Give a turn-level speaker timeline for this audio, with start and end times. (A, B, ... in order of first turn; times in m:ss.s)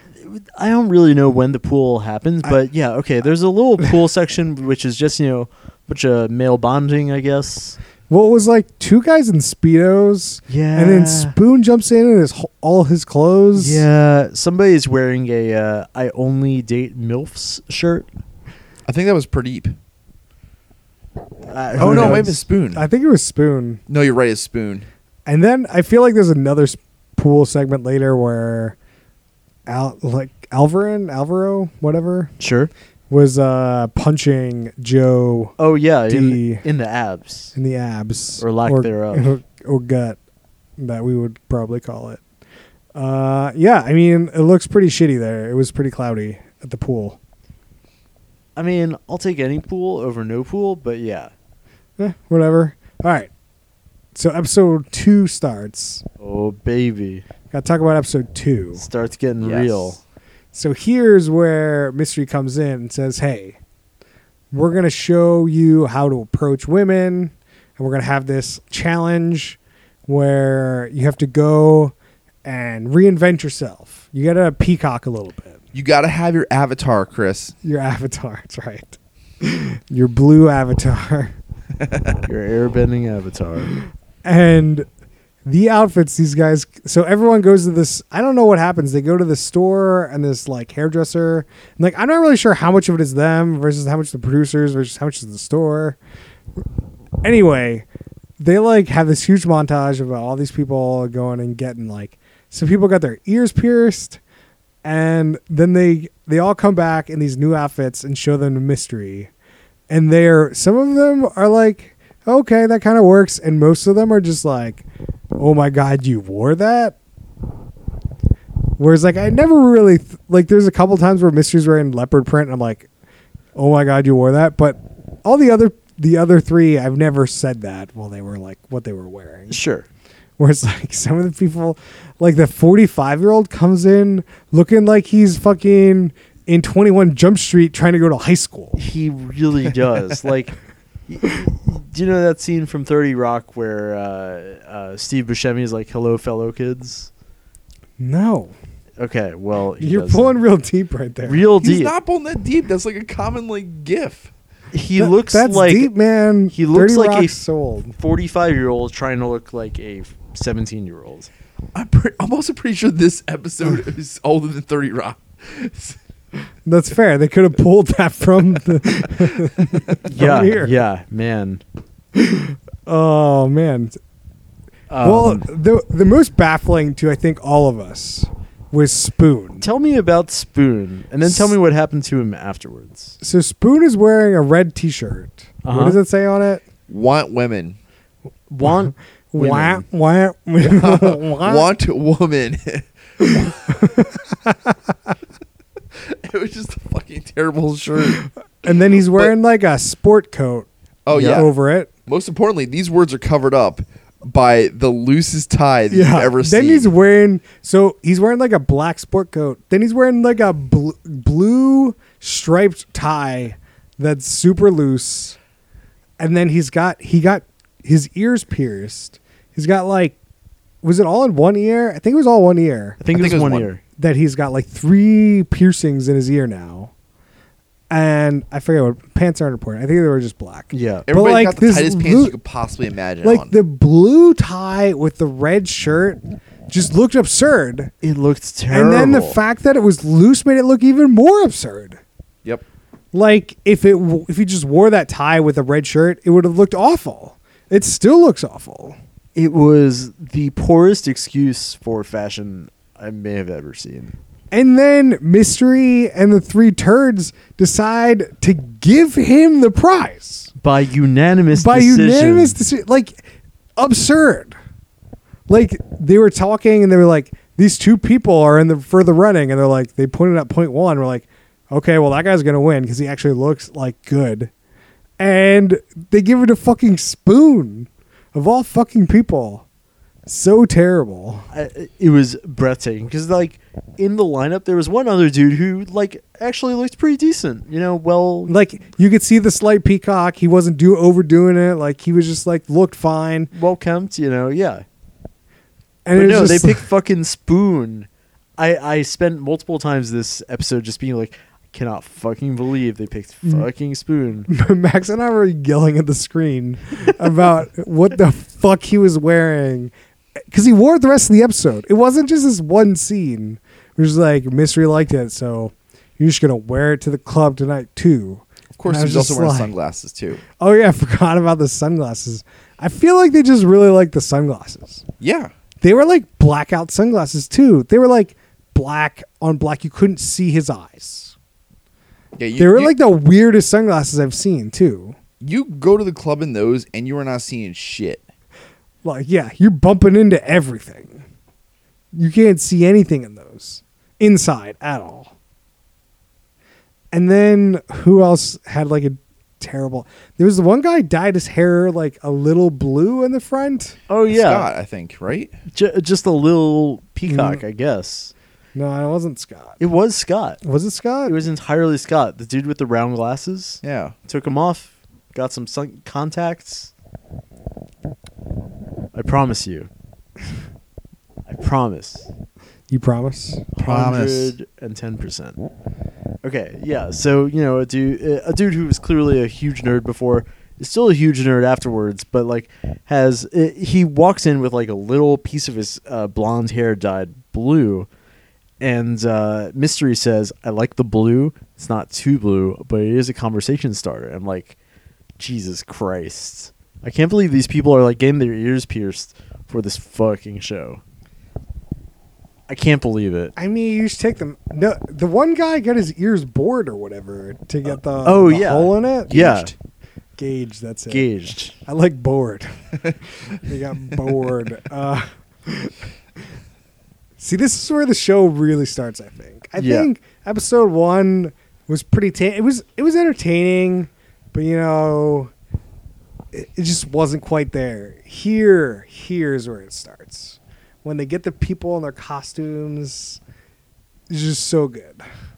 0:00.2-0:07.8 A
0:08.1-0:13.9 B
0:10.5-0:11.3 A
0:13.5-0:18.1 A
0:18.9-0:19.7 C
0:21.5-0:22.4 A
0:21.8-0:23.8 B
0:21.8-0:22.8 C
0:23.9-0:24.9 C
0:25.2-0:28.8 B
0:29.7-0:32.3 B
0:32.4-0:32.7 A
0:33.1-0:35.6 B
0:35.6-0:37.5 A
0:36.1-0:36.6 B
0:37.5-0:40.2 B
0:38.4-0:39.4 A
0:40.8-0:42.2 B
0:42.9-0:47.2 B
0:48.6-0:51.3 A
0:52.0-0:53.3 B
0:54.1-0:56.0 B
0:56.2-0:57.2 A
0:57.5-0:58.8 B
0:58.8-1:00.0 A
0:59.4-0:59.9 C
1:00.5-1:03.6 B
1:04.5-1:15.6 B
1:15.7-1:17.5 C
1:17.6-1:21.3 B
1:21.9-1:22.1 C
1:22.2-1:23.8 A
1:24.2-1:24.8 B
1:25.4-1:36.0 B
1:37.2-1:37.8 B
1:38.4-1:44.2 B
1:44.8-1:49.3 B
1:49.9-1:54.8 B
1:55.4-1:57.0 B
1:58.8-2:02.9 B
2:03.5-2:09.6 B
2:09.5-2:09.8 A
2:10.4-2:18.8 B
2:18.8-2:27.1 A
2:28.0-2:28.6 B
2:29.0-2:30.4 A
2:29.8-2:31.4 B
2:31.2-2:31.9 A
2:31.6-2:34.3 C
2:34.7-2:35.9 A
2:35.0-2:37.9 B
2:36.5-2:37.4 A
2:38.0-2:41.3 A
2:41.7-2:46.0 C
2:46.6-2:50.8 B
2:50.0-2:51.6 A
2:52.1-2:54.0 B
2:54.9-2:55.4 A
2:55.0-2:59.6 B
2:59.6-3:03.2 A
3:01.2-3:01.5 B
3:03.2-3:06.6 B
3:05.6-3:06.0 A
3:06.9-3:07.8 C
3:08.5-3:09.8 A
3:08.6-3:11.7 B
3:10.6-3:13.8 C
3:13.2-3:14.8 B
3:16.0-3:18.2 C
3:18.6-3:20.7 B
3:21.0-3:21.5 C
3:21.1-3:21.4 A
3:21.2-3:21.9 B
3:22.1-3:26.9 C
3:25.9-3:35.4 B
3:36.2-3:40.2 B
3:40.8-3:43.0 B
3:43.0-3:43.8 A
3:43.1-3:43.7 C
3:44.0-3:46.9 B
3:47.9-3:52.3 B
3:50.7-3:51.1 A
3:51.1-3:53.5 C
3:53.2-3:57.9 B
3:58.0-3:59.4 A
3:58.7-4:02.0 B
4:03.1-4:09.0 B
4:09.4-4:14.1 A
4:14.5-4:20.5 B
4:20.6-4:22.6 A
4:21.5-4:23.2 B
4:23.8-4:24.6 B
4:25.5-4:34.5 B
4:35.2-4:39.6 B
4:40.2-4:41.5 B
4:41.5-4:48.5 A
4:48.5-4:53.5 B
4:53.5-4:54.8 A
4:56.0-4:56.8 B
4:56.1-5:04.5 A
5:04.5-5:09.9 B
5:10.5-5:19.7 B
5:18.8-5:20.4 C
5:20.6-5:25.0 B
5:25.2-5:25.5 C
5:25.8-5:31.4 B
5:32.4-5:32.9 C
5:32.6-5:35.2 B
5:35.4-5:38.2 C
5:39.0-5:41.2 B
5:42.1-5:45.3 B
5:47.1-5:54.0 B
5:54.1-5:54.7 A
5:54.3-5:55.6 C
5:55.7-5:58.3 A
5:57.2-5:57.6 B
5:58.7-5:59.8 B
5:59.8-6:00.6 A
6:00.6-6:01.3 B
6:01.2-6:06.9 A
6:03.8-6:04.1 C
6:09.1-6:09.9 A
6:11.5-6:12.3 A
6:12.9-6:13.7 B
6:13.8-6:15.6 A
6:13.8-6:14.5 C
6:16.4-6:28.1 A
6:28.8-6:34.8 A
6:35.4-6:41.0 A
6:42.7-6:43.5 A
6:43.6-6:49.4 B
6:48.2-6:49.7 A
6:49.3-6:49.7 C
6:50.4-6:56.4 B
6:51.1-6:51.7 A
6:57.4-7:05.5 B
6:59.8-7:00.1 A
7:06.5-7:13.4 B
7:14.3-7:15.2 B